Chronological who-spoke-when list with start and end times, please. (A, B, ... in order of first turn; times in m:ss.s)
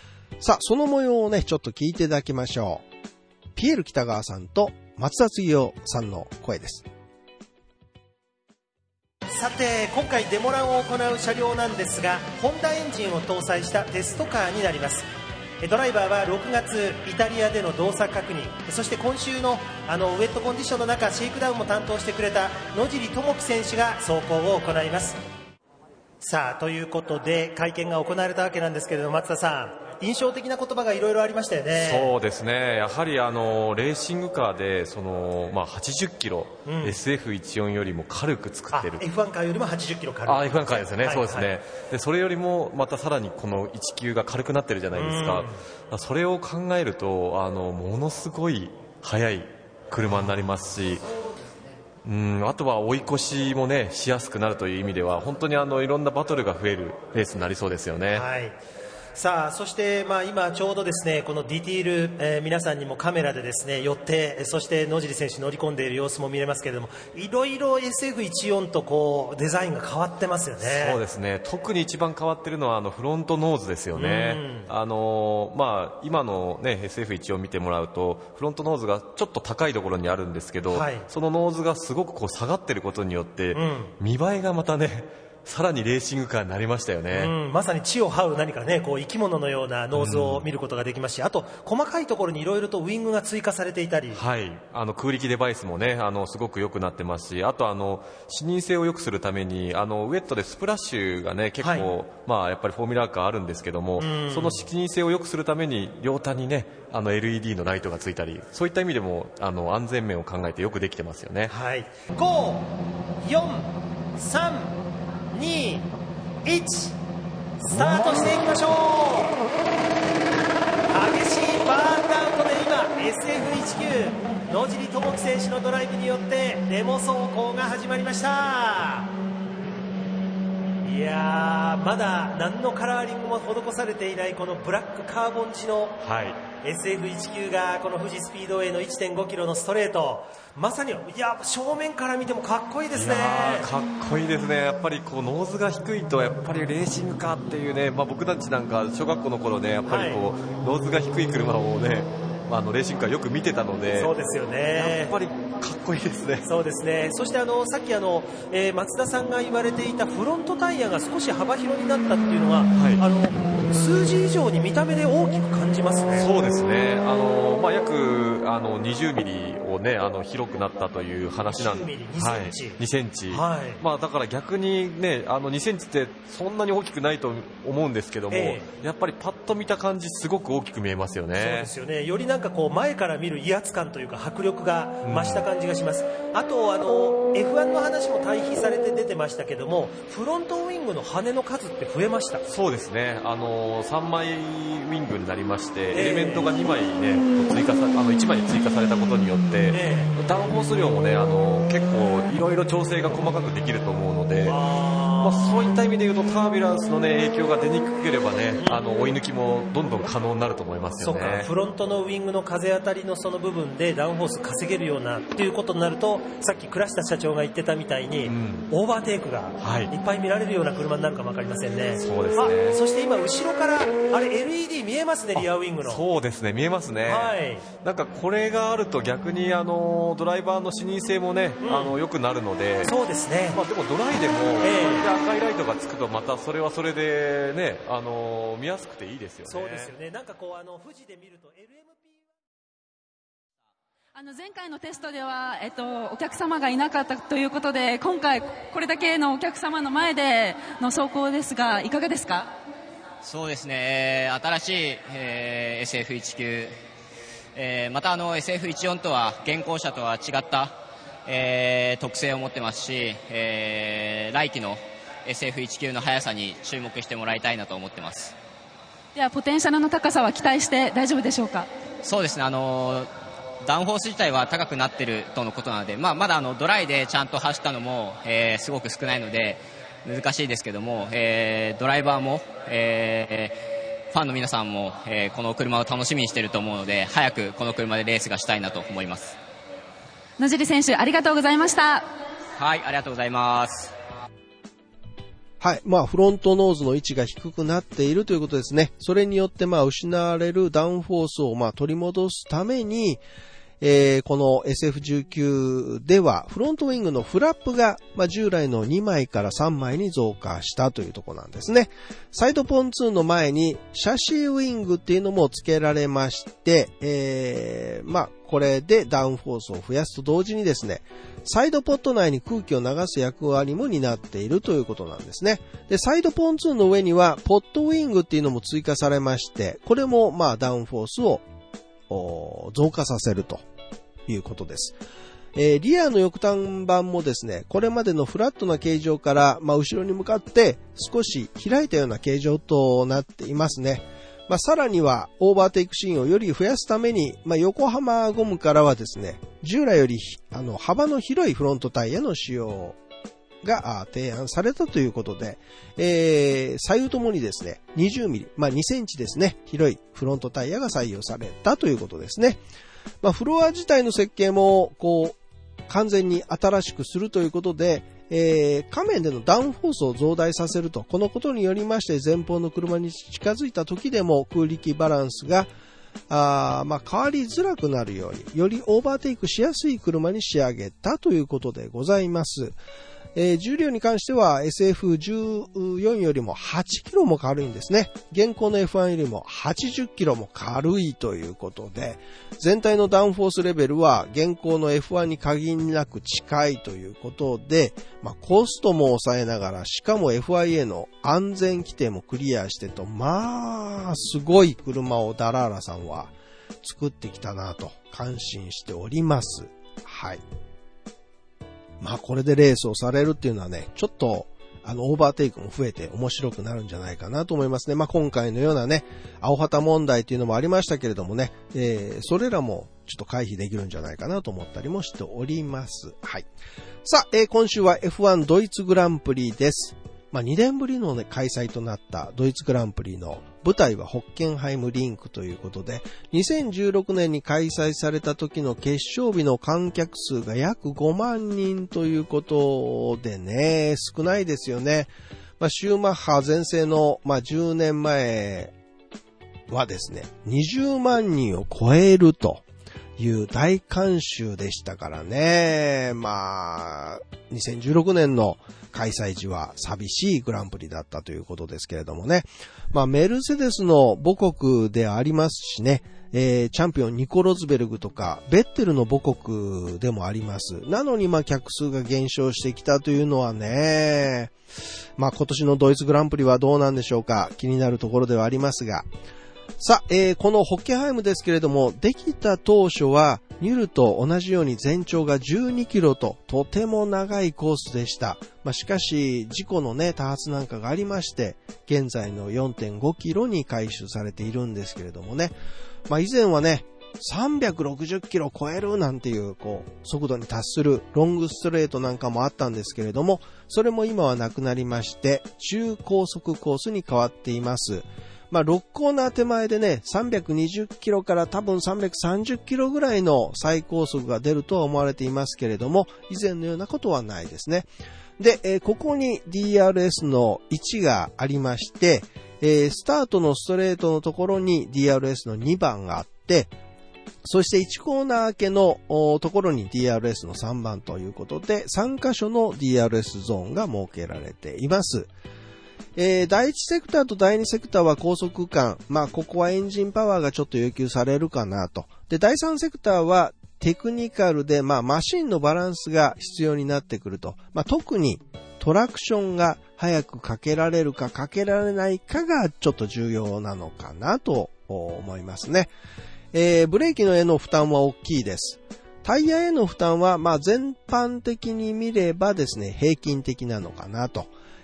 0:00.4-0:02.8 A
0:03.6-0:06.8 A
0:09.3-0:15.1 B
0:15.6-0:25.2 B
0:26.2-0:32.1 B
0:31.8-0:39.0 C
0:36.6-0:37.0 B
0:38.7-0:41.5 B
0:40.2-0:51.0 C
0:44.9-0:45.6 B
0:52.0-0:58.2 C
0:58.1-0:58.5 B
0:59.2-1:11.0 B
1:10.6-1:27.3 C
1:13.9-1:14.7 B
1:20.7-1:21.1 B
1:23.5-1:23.9 B
1:27.1-1:34.2 B
1:29.9-1:30.5 C
1:34.1-1:51.5 C
1:41.6-1:41.9 B
1:44.0-1:44.6 B
1:51.5-1:54.8 B
1:55.3-1:55.9 B
1:56.4-1:56.9 B
1:57.6-1:59.4 B
2:00.9-2:09.1 B
2:10.8-2:16.0 B
2:16.0-2:16.4 C
2:16.6-2:23.7 B
2:22.9-2:34.1 C
2:29.8-2:30.2 B
2:34.0-2:35.2 B
2:34.8-2:36.4 C
2:36.4-2:46.3 B
2:42.7-2:43.0 C
2:46.1-3:01.7 C
2:51.4-2:52.8 B
2:53.3-2:53.8 B
2:58.3-2:58.6 B
3:01.4-3:12.5 B
3:05.0-3:05.4 C
3:12.5-3:24.6 C
3:15.9-3:16.5 B
3:19.7-3:20.1 B
3:24.4-3:25.4 B
3:25.2-3:31.5 C
3:31.0-3:46.0 B
3:38.2-3:38.7 C
3:39.6-3:39.9 C
3:41.9-3:42.8 C
3:45.4-3:52.9 C
3:47.1-3:47.6 B
3:51.6-3:51.9 B
3:52.8-3:53.6 B
3:53.5-3:59.9 C
3:54.6-3:55.1 B
3:59.4-4:02.2 B
4:04.1-4:12.5 D
4:13.2-4:16.8 E
4:17.5-4:28.4 E
4:29.1-4:31.7 D
4:32.0-4:43.6 E
4:44.1-4:49.4 E
4:50.4-4:52.1 D
4:52.6-4:53.9 E
4:55.6-5:03.2 A
5:03.8-5:31.4 A
5:32.1-5:33.6 A
5:34.3-5:35.0 A
5:35.5-5:53.0 A
5:53.6-6:02.6 A
6:03.2-6:15.7 A
6:16.3-6:22.8 A
6:23.4-6:50.4 A
6:52.0-7:06.4 A
7:07.0-7:28.7 A
7:29.7-7:32.6 A
7:33.2-7:54.5 A
7:55.2-7:59.1 A
7:59.8-8:15.6 A
8:16.1-8:37.9 A
8:38.4-8:46.7 A
8:47.4-8:55.3 A
8:56.2-9:15.9 A
9:16.5-9:24.5 A